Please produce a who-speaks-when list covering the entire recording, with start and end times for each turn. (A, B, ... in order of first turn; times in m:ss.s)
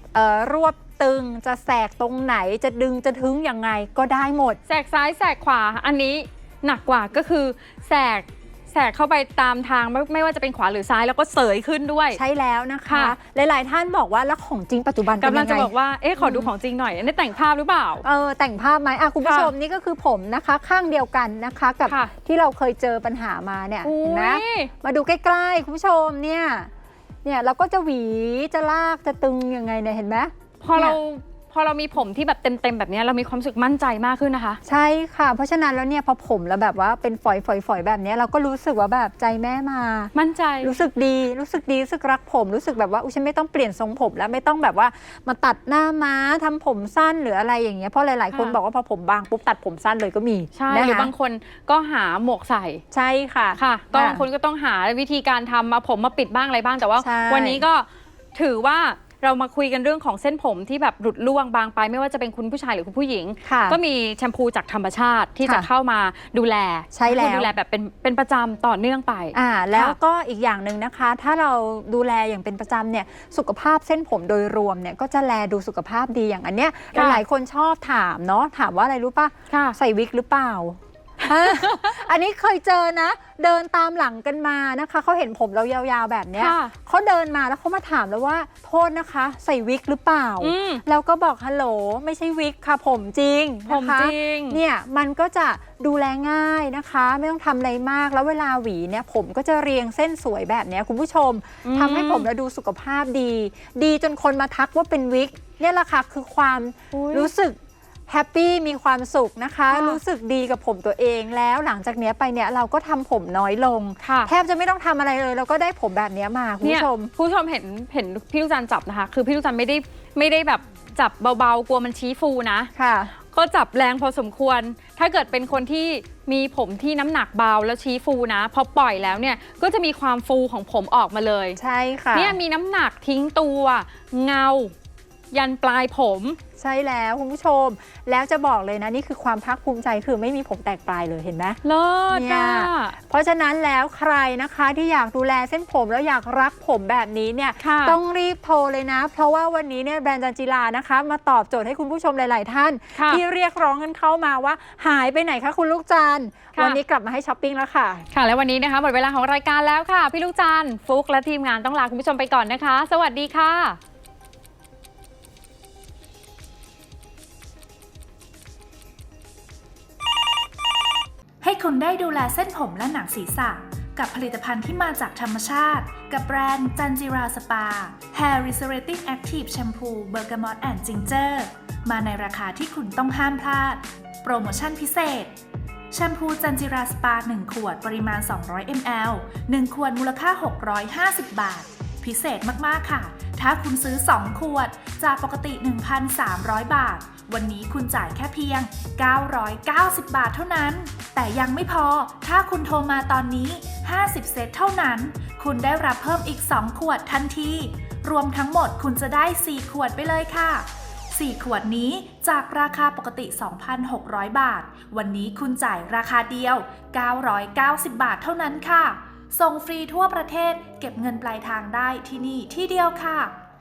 0:00.1-0:04.6 A
0:04.6-0:12.2 B
0:12.1-0:16.5 A
0:12.9-0:13.2 B
0:15.2-0:18.0 B
0:18.0-0:26.7 A
0:19.2-0:19.5 B
0:23.8-0:24.7 B
0:27.2-0:31.0 A
0:30.6-0:34.6 B
0:34.6-0:51.1 A
0:40.1-0:40.8 B
0:50.5-0:52.8 B
0:52.9-0:54.2 A
0:53.6-1:10.0 B
0:57.0-0:57.6 A
1:03.4-1:03.8 A
1:06.9-1:07.5 A
1:09.3-1:57.1 A
1:16.9-1:17.2 B
1:19.5-1:19.8 B
1:21.4-1:21.8 B
1:26.4-1:26.7 B
1:30.4-1:30.8 B
1:33.7-1:34.6 B
1:41.6-1:42.3 B
1:46.9-1:47.3 B
1:49.7-1:50.0 B
1:54.0-1:54.3 B
1:56.6-2:02.7 B
2:02.8-2:03.1 A
2:03.3-2:11.6 B
2:11.6-2:12.4 A
2:12.1-2:14.7 B
2:15.3-2:16.4 B
2:16.6-2:21.6 A
2:21.6-2:23.0 B
2:22.1-2:38.1 A
2:27.6-2:28.0 B
2:32.9-2:33.2 B
2:38.1-2:43.8 B
2:51.4-3:05.3 C
3:05.9-3:43.4 C